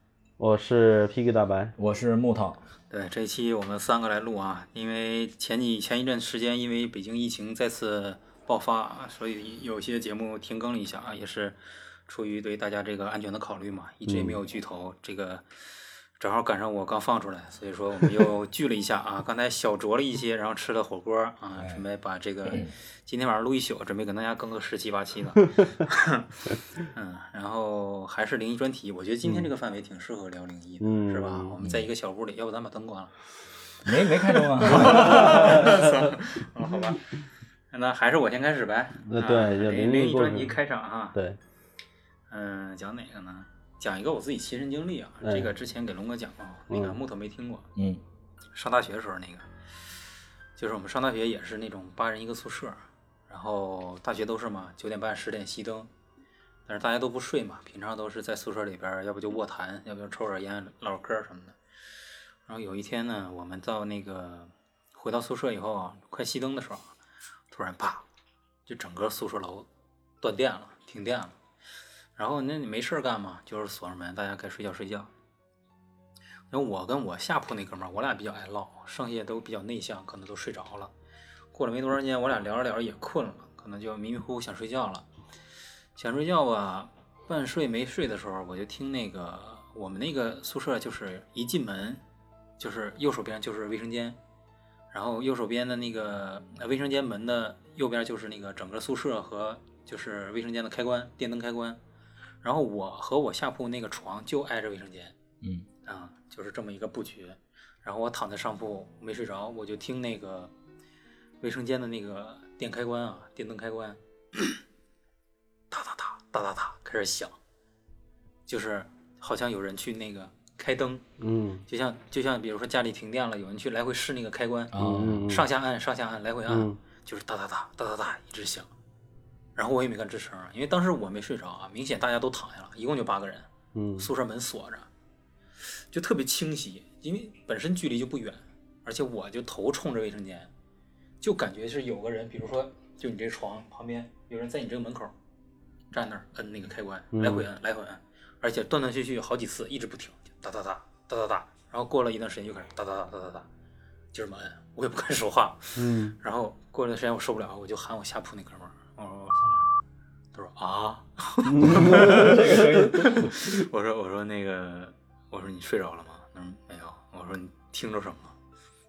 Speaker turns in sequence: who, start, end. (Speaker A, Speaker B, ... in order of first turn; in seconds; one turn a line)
Speaker A: 0.4-1.8
Speaker B: 1.8-2.6
Speaker C: 2.9-15.5
Speaker A: 14.1-14.4
Speaker C: 16.2-33.1
Speaker B: 21.6-21.8
Speaker B: 22.5-22.7
Speaker A: 30.8-31.6
Speaker B: 33.8-35.9
Speaker C: 34.1-37.1
Speaker A: 34.7-36.1
Speaker C: 37.7-41.2
Speaker A: 39.1-40.6
Speaker A: 41.1-41.4
Speaker C: 42.3-47.7
Speaker A: 45.2-45.5
Speaker A: 46.7-47.0
Speaker B: 47.8-48.0
Speaker C: 48.5-49.5
Speaker C: 50.6-55.9
Speaker C: 56.7-61.6
Speaker C: 62.5-66.9
Speaker C: 67.5-68.0
Speaker C: 68.7-69.7
Speaker C: 70.2-71.3
Speaker C: 72.2-75.1
Speaker C: 76.5-80.9
Speaker C: 81.5-85.0
Speaker C: 86.0-92.0
Speaker C: 92.6-94.2
Speaker C: 94.9-101.8
Speaker C: 102.4-105.2
Speaker C: 105.8-110.5
Speaker C: 111.4-114.6
Speaker C: 115.7-117.3
Speaker C: 118.5-121.0
Speaker A: 121.2-121.7
Speaker C: 121.7-128.7
Speaker B: 124.7-125.2
Speaker A: 124.8-125.5
Speaker A: 126.5-126.8
Speaker C: 129.6-134.9
Speaker A: 133.7-134.1
Speaker C: 135.6-140.5
Speaker C: 141.2-145.1
Speaker C: 145.9-153.5
Speaker A: 147.1-147.5
Speaker C: 154.1-159.7
Speaker A: 155.8-156.2
Speaker C: 160.3-168.3
Speaker A: 161.4-163.6
Speaker B: 161.6-163.3